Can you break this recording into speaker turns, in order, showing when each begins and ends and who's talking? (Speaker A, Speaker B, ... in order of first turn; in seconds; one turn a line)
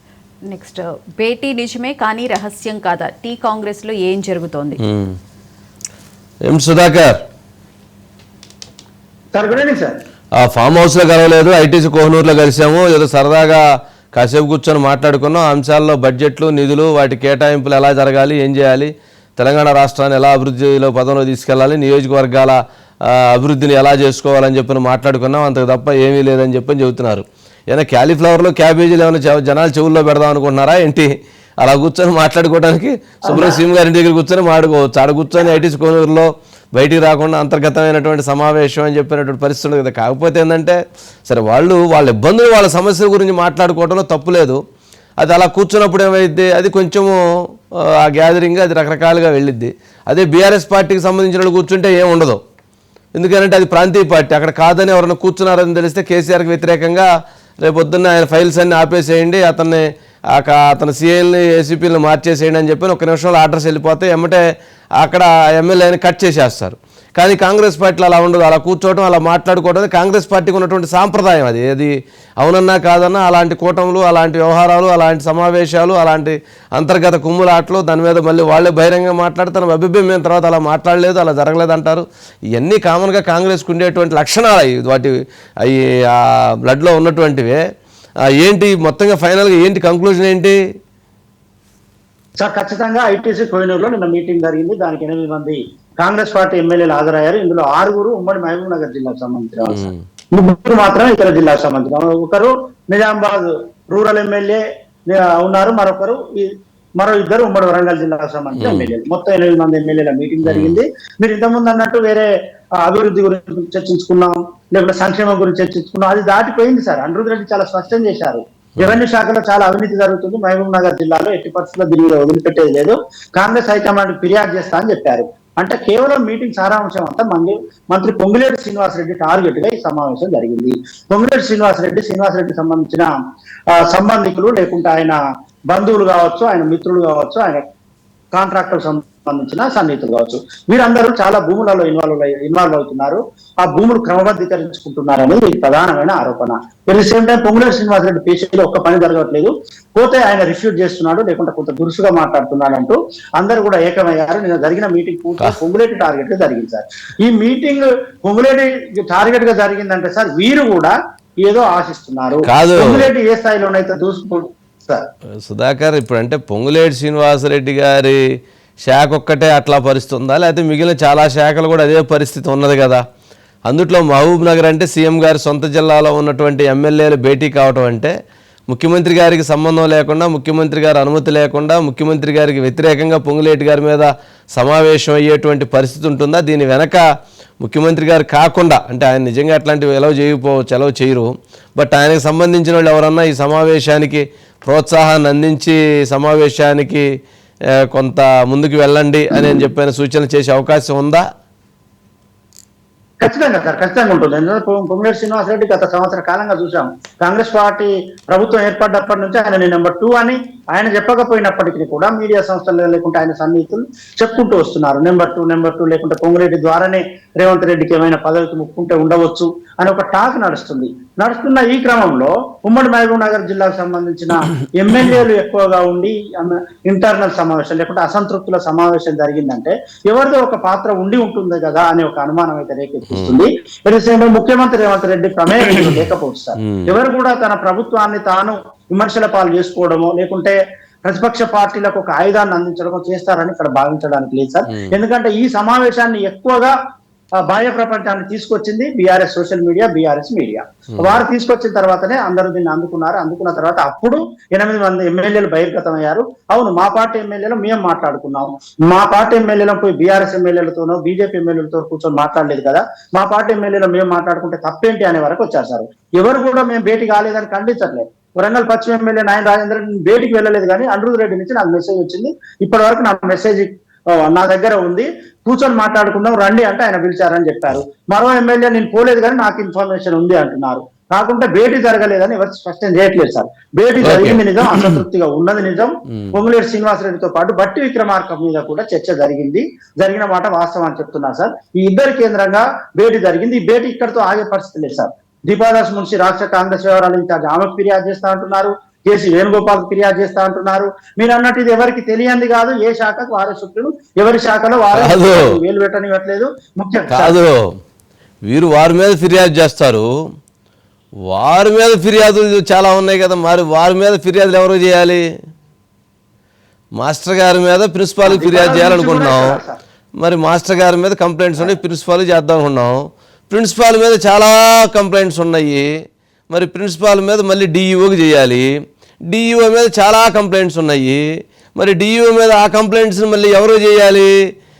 Speaker A: 0.5-4.8
Speaker B: 4.8-5.2
Speaker B: 6.5-7.2
Speaker C: 9.3-10.0
Speaker B: 10.4-22.6
Speaker B: 23.1-31.1
Speaker B: 31.6-44.6
Speaker C: 33.3-33.6
Speaker B: 45.2-47.2
Speaker B: 47.8-52.4
Speaker B: 53.1-57.1
Speaker B: 57.6-64.4
Speaker B: 65.0-87.6
Speaker B: 88.3-90.6
Speaker C: 92.4-112.3
Speaker B: 99.7-100.0
Speaker B: 108.6-108.9
Speaker B: 110.4-110.8
Speaker C: 112.8-133.1
Speaker C: 133.7-135.2
Speaker C: 135.7-137.6
Speaker C: 138.3-160.9
Speaker C: 161.4-165.0
Speaker B: 162.4-163.1
Speaker B: 165.4-168.2
Speaker B: 168.8-173.0
Speaker B: 173.7-178.1
Speaker B: 178.7-187.0
Speaker B: 187.6-197.1
Speaker B: 197.9-201.2
Speaker C: 203.2-246.7
Speaker B: 233.1-233.3
Speaker B: 236.6-236.9
Speaker C: 247.4-307.4
Speaker B: 284.0-285.0
Speaker B: 304.9-305.5
Speaker B: 307.1-307.7
Speaker B: 308.5-310.1
Speaker B: 311.3-315.2
Speaker B: 317.0-319.5
Speaker C: 318.2-319.8
Speaker B: 320.2-325.9
Speaker B: 326.5-328.7
Speaker B: 329.3-331.2
Speaker B: 331.7-334.3